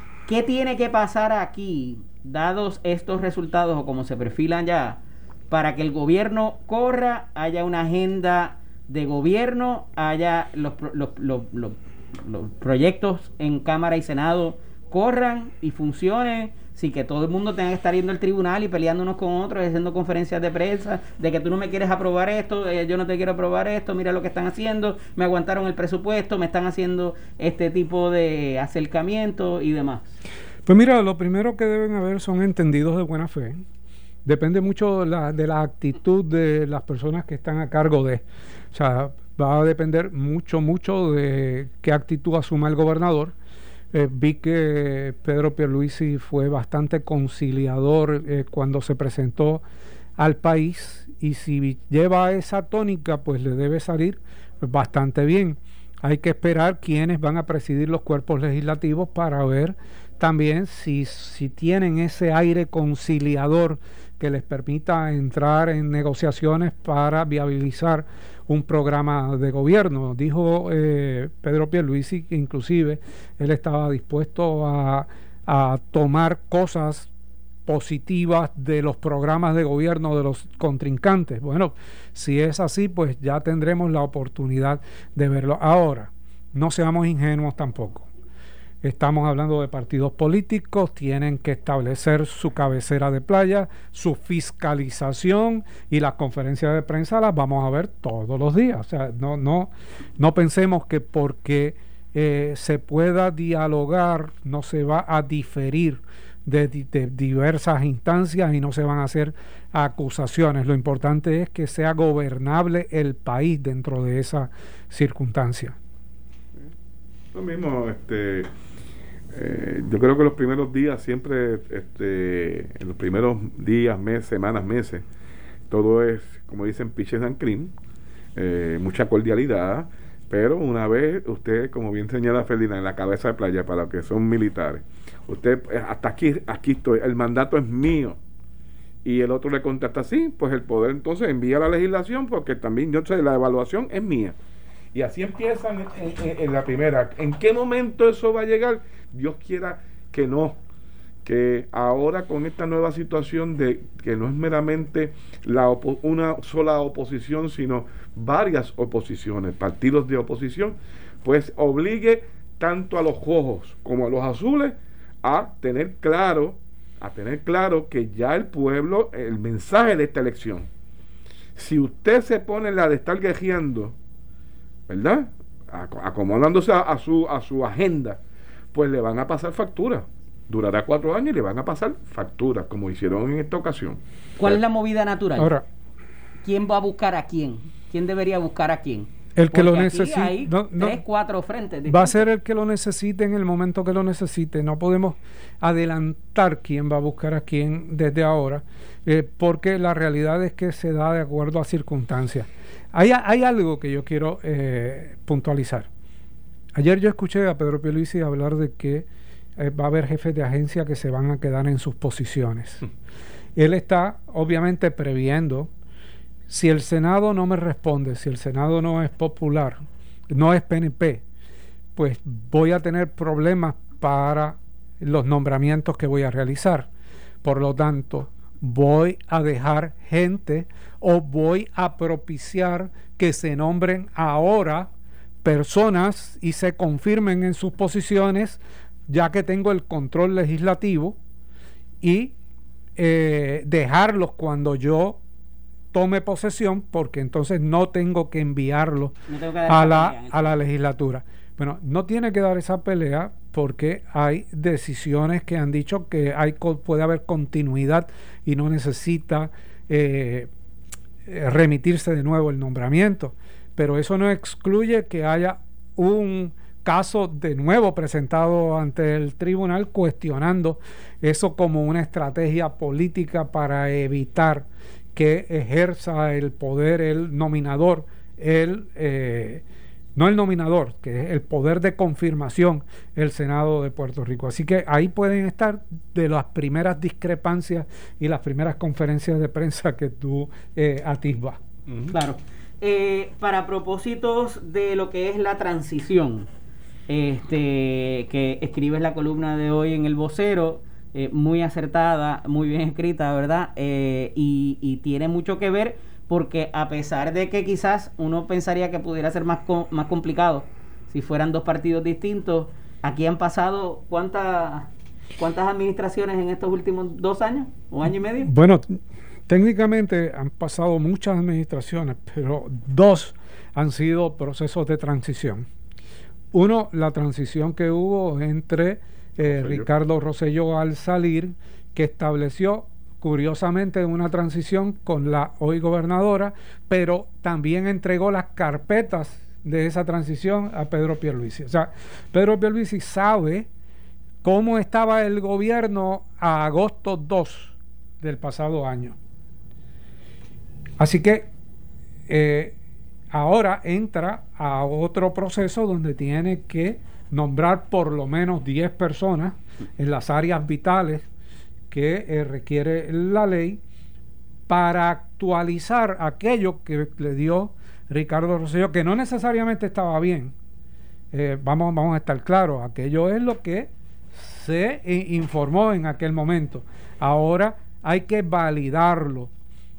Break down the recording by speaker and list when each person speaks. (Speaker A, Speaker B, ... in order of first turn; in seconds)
Speaker A: 0.3-30.1, 184.4-185.5, 186.4-192.3, 249.3-250.6, 292.1-296.5, 297.1-318.5
Speaker B: 30.7-33.6, 34.2-43.3, 43.9-49.6, 50.2-77.1, 77.7-88.1, 88.8-115.8, 185.4-185.6, 189.3-191.0, 191.9-205.9, 206.7-212.8, 213.6-215.7, 216.5-221.2, 221.9-226.9, 227.4-234.9, 235.4-241.2, 242.0-242.3, 243.0-245.2, 245.9-249.2, 249.7-260.5, 261.2-279.6, 280.1-291.6, 318.4-325.6, 326.5-343.7, 344.4-349.2, 351.0-351.5, 352.3-352.7, 353.3-361.2, 361.9-363.8, 364.7-370.5, 371.3-379.5
Speaker C: 117.3-118.5, 119.3-125.0, 125.7-127.7, 128.3-138.2, 139.0-144.3, 144.9-150.6, 151.2-170.7, 171.6-173.9, 174.9-178.2, 178.7-184.6, 291.9-292.1, 329.4-329.9